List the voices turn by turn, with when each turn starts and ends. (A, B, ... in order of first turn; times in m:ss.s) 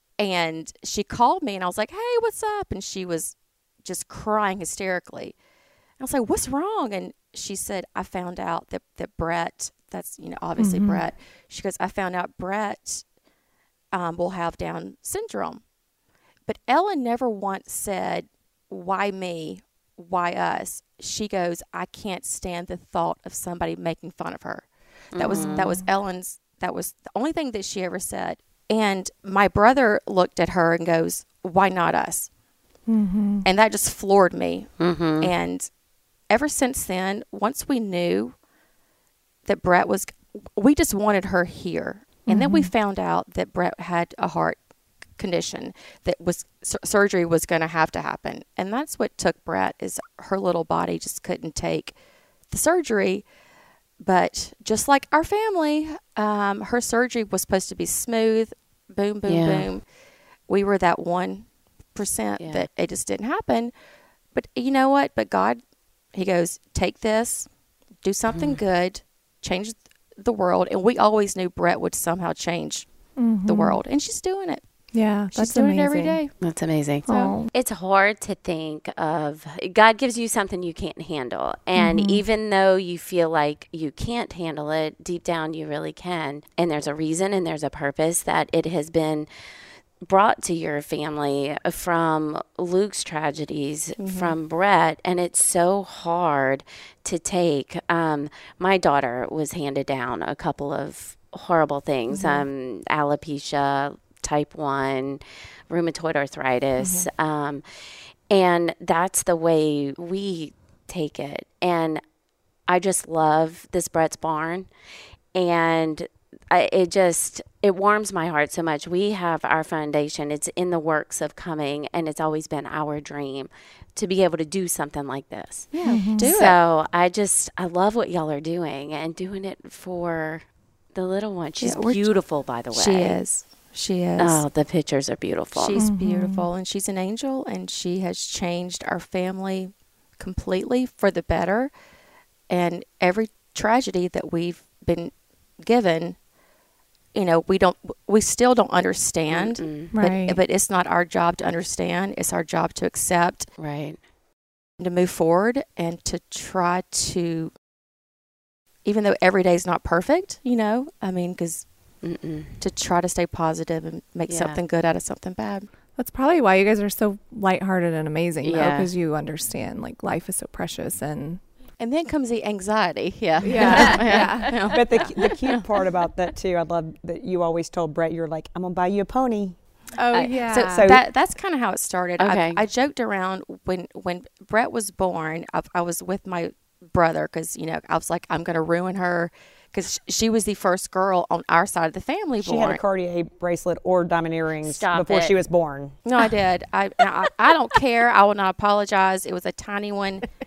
0:00.2-0:05.4 A
0:06.0-0:13.0 A
0:10.6-0:11.0 B
0:13.9-0:15.6 A
0:16.5-0:32.3 A
0:25.1-0:25.7 C
0:25.3-0:25.8 B
0:32.9-0:33.5 B
0:33.4-0:35.7 A
0:34.8-0:35.3 C
0:36.3-0:38.3 A
0:39.4-0:44.6 A
0:42.3-0:42.7 B
0:45.2-0:51.9 A
0:52.5-0:53.3 A
0:54.0-0:59.8 A
0:59.3-0:59.7 C
1:00.5-1:03.7 A
1:02.4-1:02.7 C
1:04.3-1:05.6 A
1:06.1-1:07.5 A
1:08.0-1:12.9 A
1:08.3-1:08.6 C
1:13.2-1:13.8 B
1:13.4-1:14.6 A
1:14.9-1:16.2 B
1:15.3-1:16.3 A
1:16.4-1:29.3 C
1:17.1-1:17.5 B
1:17.1-1:17.4 A
1:21.8-1:22.2 B
1:30.0-1:47.6 C
1:34.0-1:34.4 A
1:42.1-1:42.4 B
1:46.8-1:47.1 B
1:48.3-1:52.0 C
1:52.7-1:54.7 C
1:55.4-2:10.4 C
2:05.7-2:06.6 A
2:05.8-2:06.3 B
2:11.0-2:13.2 C
2:11.6-2:12.1 A
2:12.7-2:14.4 A
2:14.2-2:15.8 C
2:15.5-2:21.7 A
2:15.8-2:16.5 B
2:22.5-2:26.2 A
2:27.1-2:33.5 A
2:29.3-2:29.9 C
2:29.9-2:30.4 B
2:33.6-2:34.0 C
2:34.8-2:37.5 A
2:38.8-2:41.7 A
2:42.0-2:42.6 C
2:42.6-2:45.7 A
2:44.3-2:44.6 C
2:46.0-2:51.4 B
2:48.4-2:48.9 C
2:51.8-2:55.6 A
2:53.4-2:54.5 B
2:53.5-2:54.0 D
2:53.6-2:55.2 C
2:54.7-2:59.6 D
3:00.0-3:00.9 B
3:00.1-3:00.4 C
3:00.5-3:12.8 A
3:00.7-3:01.1 D
3:02.2-3:02.6 C
3:12.4-3:16.0 D
3:14.6-3:15.4 C
3:16.1-3:20.3 A